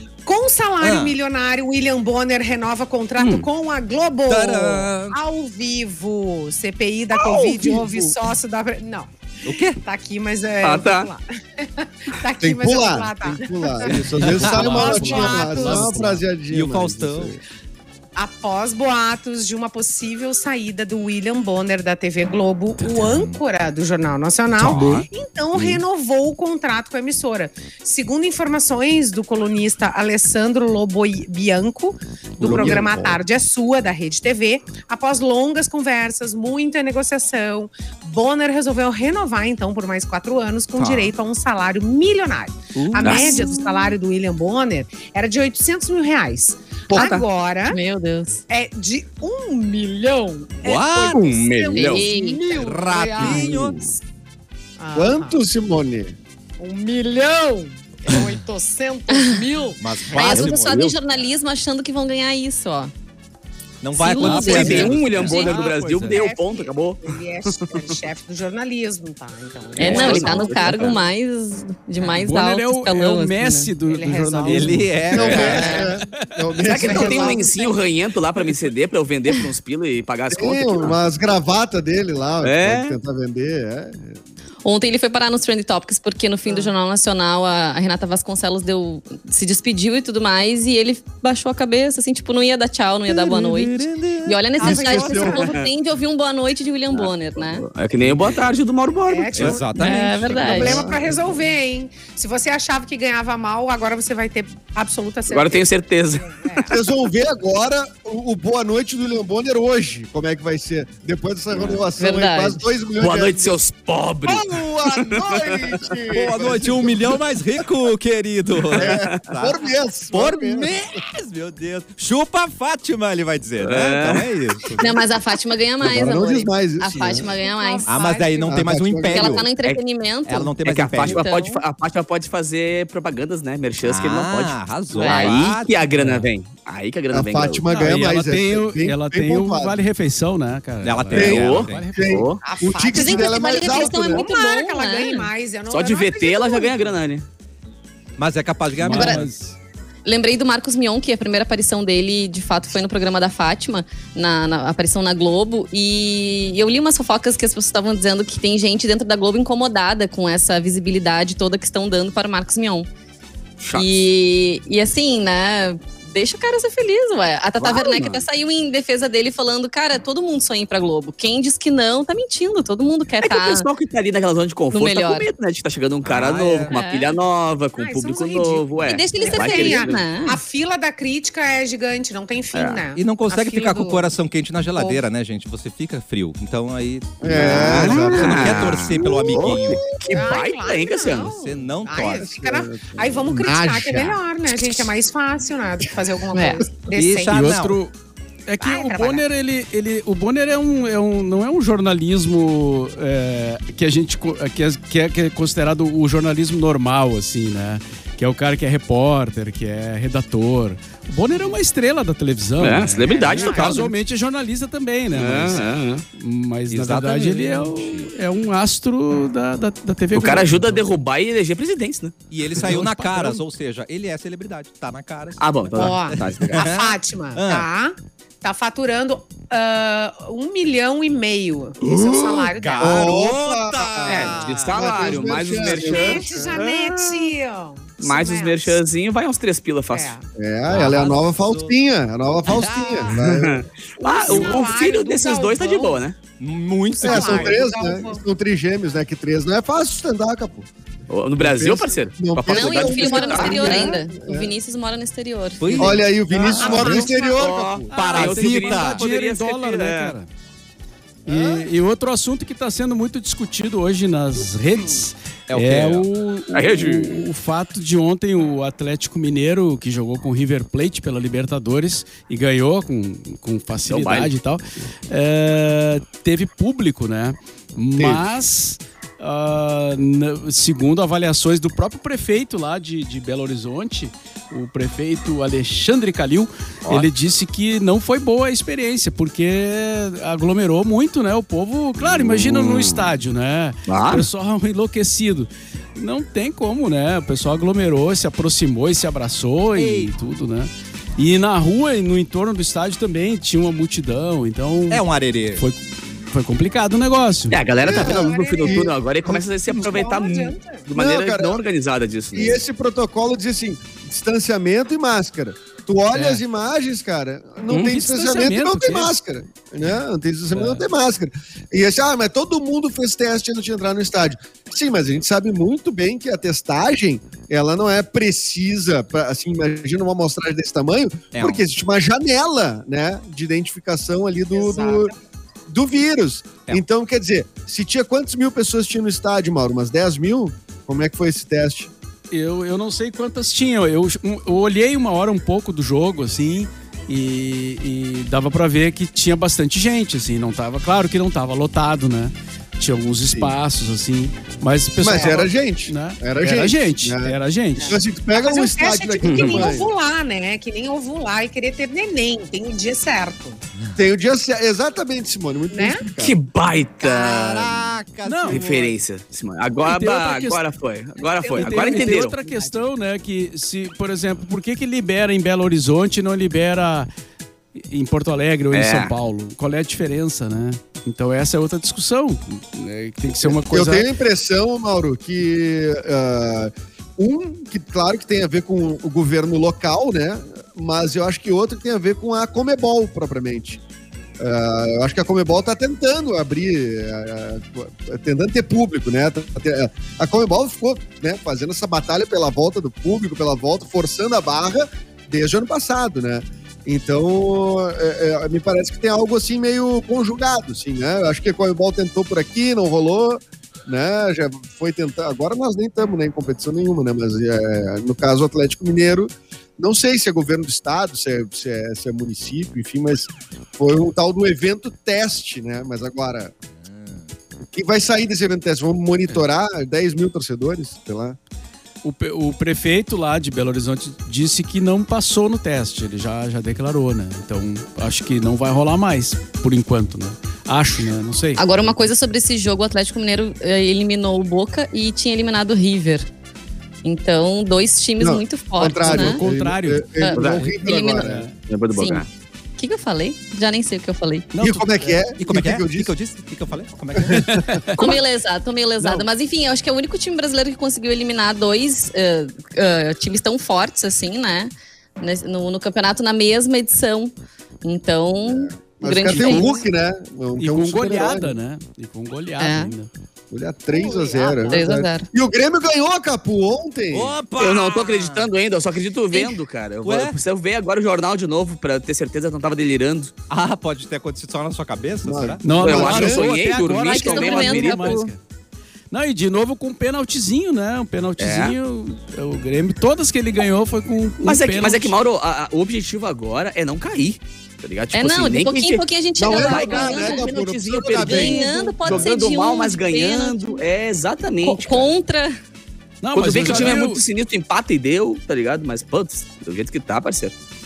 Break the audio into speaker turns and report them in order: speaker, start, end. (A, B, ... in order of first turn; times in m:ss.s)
0:00.3-0:09.1 A
0:00.8-0:01.2 B
0:03.2-0:03.5 C
0:04.3-0:05.2 B
0:09.4-0:09.8 B
0:09.7-0:14.0 A
0:10.6-0:11.1 C
0:12.4-0:17.4 D
0:13.9-0:16.3 E
0:14.2-0:15.9 B
0:14.6-0:16.0 A
0:16.5-0:17.4 B
0:18.2-0:47.8 A
0:22.8-0:23.4 B
0:24.6-0:25.1 B
0:24.7-0:25.0 C
0:25.6-0:25.8 C
0:32.4-0:33.2 B
0:32.5-0:32.8 C
0:40.8-0:41.1 B
0:42.8-0:43.4 B
0:43.0-0:43.5 C
0:43.1-0:43.9 F
0:47.0-0:47.2 C
0:47.7-0:48.4 F
0:48.5-0:54.0 A
0:50.6-0:51.2 B
0:51.1-0:52.1 C
0:51.8-0:52.4 F
0:52.4-0:53.8 B
0:53.4-0:53.7 C
0:54.8-0:55.4 A
0:55.0-0:56.2 D
0:56.6-1:00.4 A
0:59.1-0:59.4 F
0:59.8-1:01.0 B
1:00.1-1:02.9 F
1:00.2-1:01.0 C
1:03.8-1:06.2 B
1:03.9-1:05.5 F
1:04.2-1:08.0 C
1:04.5-1:11.0 A
1:04.7-1:05.0 E
1:09.8-1:13.7 F
1:09.8-1:11.0 C
1:12.0-1:15.1 E
1:13.9-1:15.9 A
1:14.5-1:15.9 B
1:15.1-1:17.5 D
1:15.1-1:15.8 C
1:16.6-1:17.9 A
1:16.6-1:21.0 C
1:20.3-1:24.2 D
1:22.4-1:23.0 C
1:24.6-1:37.6 F
1:26.5-1:26.7 A
1:33.1-1:34.9 B
1:34.6-1:35.7 A
1:34.7-1:35.4 D
1:35.3-1:35.7 C
1:36.9-1:39.6 C
1:39.1-1:46.8 A
1:39.4-1:40.7 B
1:39.8-1:40.8 F
1:40.3-1:41.3 D
1:45.3-1:46.7 C
1:46.7-1:53.6 D
1:51.5-1:51.8 C
1:52.0-1:52.6 F
1:53.0-1:55.9 C
1:54.3-1:57.2 D
1:56.1-2:05.0 B
1:58.7-2:00.8 D
1:58.8-1:59.3 C
2:03.6-2:04.3 C
2:04.8-2:07.9 F
2:05.8-2:07.3 D
2:07.3-2:08.7 A
2:07.9-2:09.5 B
2:08.5-2:09.4 D
2:09.1-2:11.6 F
2:10.3-2:11.2 B
2:10.6-2:17.7 C
2:13.8-2:15.8 B
2:15.0-2:15.4 F
2:15.8-2:16.3 E
2:17.1-2:19.8 D
2:17.7-2:22.3 E
2:20.8-2:21.9 B
2:21.1-2:24.3 D
2:21.2-2:22.4 C
2:22.4-2:27.0 A
2:22.9-2:25.3 F
2:25.7-2:27.3 C
2:28.2-2:29.3 B
2:28.7-2:29.6 E
2:28.9-2:29.2 F
2:30.0-2:42.9 F
2:43.6-2:44.0 C
2:43.7-2:53.7 F
2:47.6-2:48.2 C
2:53.2-3:00.0 C
2:54.7-2:55.3 F
2:56.0-2:56.7 B
2:56.7-2:57.1 F
2:57.8-3:04.1 A
2:58.8-3:00.4 F
3:02.5-3:02.8 C
3:03.0-3:10.0 B
3:04.7-3:05.0 A
3:07.2-3:08.9 D
3:07.4-3:11.3 C
3:09.5-3:17.5 A
3:11.1-3:12.3 B
3:12.1-3:14.2 D
3:16.3-3:16.6 F
3:16.9-3:17.8 B
3:17.3-3:17.9 E
3:18.5-3:40.8 E
3:18.6-3:19.2 A
3:32.6-3:33.9 C
3:33.0-3:33.9 A
3:35.1-3:36.0 C
3:36.7-3:38.1 B
3:40.2-3:42.2 C
3:42.3-3:47.7 B
3:42.6-3:43.4 E
3:45.4-3:46.6 C
3:45.7-3:53.2 A
3:51.8-3:55.5 B
3:52.8-3:56.6 D
3:54.1-3:56.7 C
3:55.6-3:58.8 A
3:56.6-3:57.3 B
3:58.0-4:00.1 C
3:59.9-4:00.2 A
4:00.4-4:03.7 D
4:00.7-4:01.7 B
4:02.5-4:03.2 B
4:02.6-4:03.1 A
4:03.2-4:06.2 C
4:04.0-4:06.0 A
4:06.4-4:07.6 B
4:07.0-4:08.2 A
4:07.0-4:10.7 D
4:11.1-4:14.0 C
4:11.4-4:14.5 D
4:12.5-4:16.0 F
4:13.3-4:14.0 A
4:15.6-4:17.1 B
4:15.8-4:17.9 D
4:16.5-4:20.2 C
4:16.5-4:17.5 A
4:17.9-4:20.3 E
4:17.9-4:19.0 B
4:21.2-5:07.6 E
4:21.3-4:21.6 B
4:25.5-4:26.1 B
4:26.5-4:27.2 C
4:33.9-4:34.3 C
4:38.0-4:38.3 D
4:52.1-4:53.1 C
4:53.9-4:54.3 C
4:59.8-5:00.1 B
5:04.9-5:05.6 B
5:07.5-5:12.6 C
5:07.8-5:09.0 D
5:07.8-5:10.8 A
5:11.0-5:11.6 D
5:12.3-5:35.1 D
5:16.1-5:16.4 E
5:17.7-5:19.1 E
5:20.5-5:20.8 E
5:31.3-5:31.6 B
5:34.5-5:35.2 A
5:35.7-5:41.9 D
5:42.3-5:58.0 E
5:55.0-5:59.9 D
5:55.1-5:55.4 A
5:57.8-6:03.6 A
5:59.2-5:59.7 C
6:04.0-6:06.4 D
6:05.7-6:06.0 A
6:06.2-6:07.9 C
6:07.0-6:09.0 B
6:08.2-6:08.7 E
6:08.4-6:12.4 C
6:09.8-6:10.6 E
6:11.2-6:12.8 A
6:11.5-6:17.1 E
6:17.8-6:24.1 E
6:18.7-6:19.2 C
6:23.4-6:33.8 D
6:34.4-7:06.5 D
7:06.8-7:07.3 B
7:07.6-7:11.4 D
7:12.0-7:21.6 E
7:21.6-7:26.3 F
7:27.0-7:29.4 F
7:28.2-7:31.5 D
7:29.0-7:31.6 E
7:30.2-7:31.3 F
7:30.4-7:30.7 C
7:31.7-7:32.3 C
7:31.9-7:32.2 F
7:32.8-7:34.5 F
7:34.5-7:35.2 E
7:34.6-7:36.1 D
7:35.4-7:37.8 B
7:37.2-7:37.8 D
7:37.3-7:38.2 E
7:38.0-7:49.8 F
7:48.4-7:51.6 D
7:50.6-7:53.1 E
7:52.6-7:52.9 F
7:53.5-7:57.4 D
7:53.9-7:54.9 A
7:54.7-7:55.3 F
7:57.1-7:58.5 B
7:57.6-8:03.3 C
7:59.3-7:59.6 F
8:00.0-8:00.4 B
8:03.5-8:05.6 B
8:05.2-8:06.5 D
8:05.6-8:08.4 E
8:05.7-8:08.2 C
8:07.0-8:08.3 F
8:09.1-8:15.2 E
8:11.4-8:11.8 C
8:14.4-8:25.1 C
8:18.1-8:20.5 F
8:19.4-8:22.3 D
8:21.1-8:23.8 F
8:24.6-8:25.6 F
8:26.2-8:27.2 E
8:26.3-8:30.5 C